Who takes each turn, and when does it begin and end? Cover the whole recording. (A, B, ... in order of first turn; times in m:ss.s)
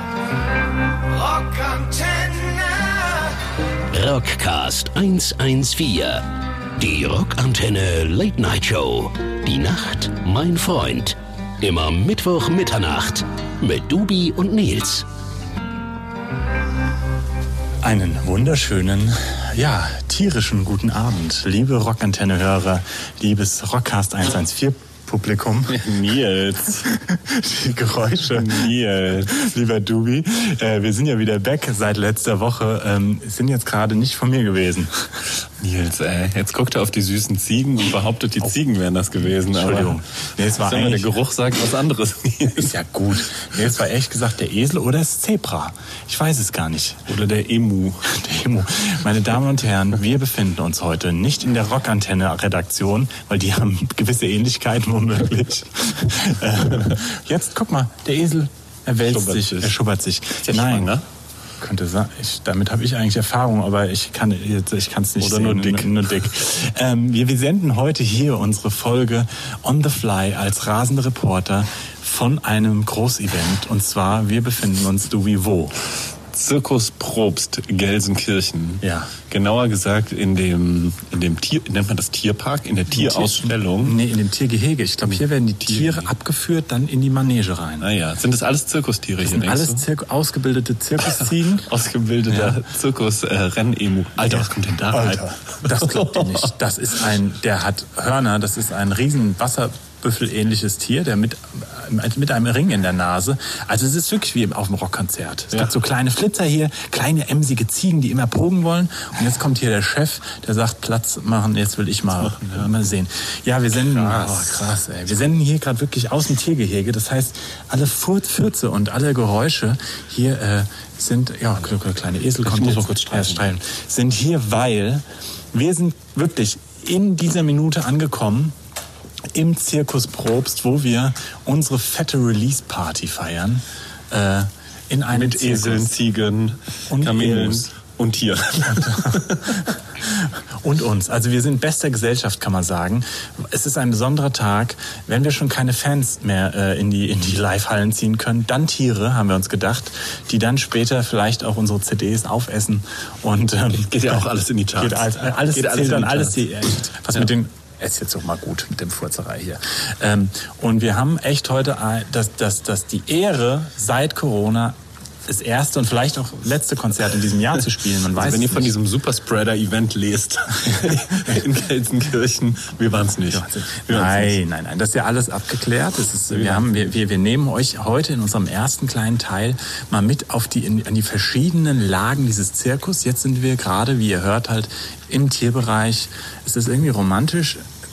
0:01.3-0:03.3 A
0:03.9-0:06.2 A
0:06.8-0:15.0 A
0:17.8-0:26.0 B
0:25.7-0:26.9 C
0:26.8-0:35.3 B
0:28.2-0:29.3 C
0:35.6-0:42.8 C
0:39.5-0:41.1 B
0:42.5-0:47.1 B
0:47.1-0:48.1 C
0:48.0-1:00.9 B
0:59.1-0:59.7 C
1:00.4-1:01.0 C
1:01.6-1:15.8 B
1:05.2-1:06.0 C
1:16.3-1:24.0 C
1:18.8-1:19.1 B
1:22.9-1:27.9 B
1:25.1-1:26.1 C
1:27.8-1:29.8 C
1:29.2-1:31.7 B
1:31.0-1:36.5 C
1:32.3-1:32.6 B
1:34.3-2:08.6 B
1:52.2-1:52.7 C
1:53.8-1:54.6 C
2:02.4-2:03.4 C
2:09.3-2:15.9 B
2:15.1-2:19.6 C
2:16.9-2:17.7 B
2:18.7-2:34.2 B
2:33.7-2:36.5 C
2:34.8-2:48.7 B
2:48.0-2:54.4 C
2:50.6-2:51.4 B
2:53.3-3:07.6 B
2:56.3-2:56.6 C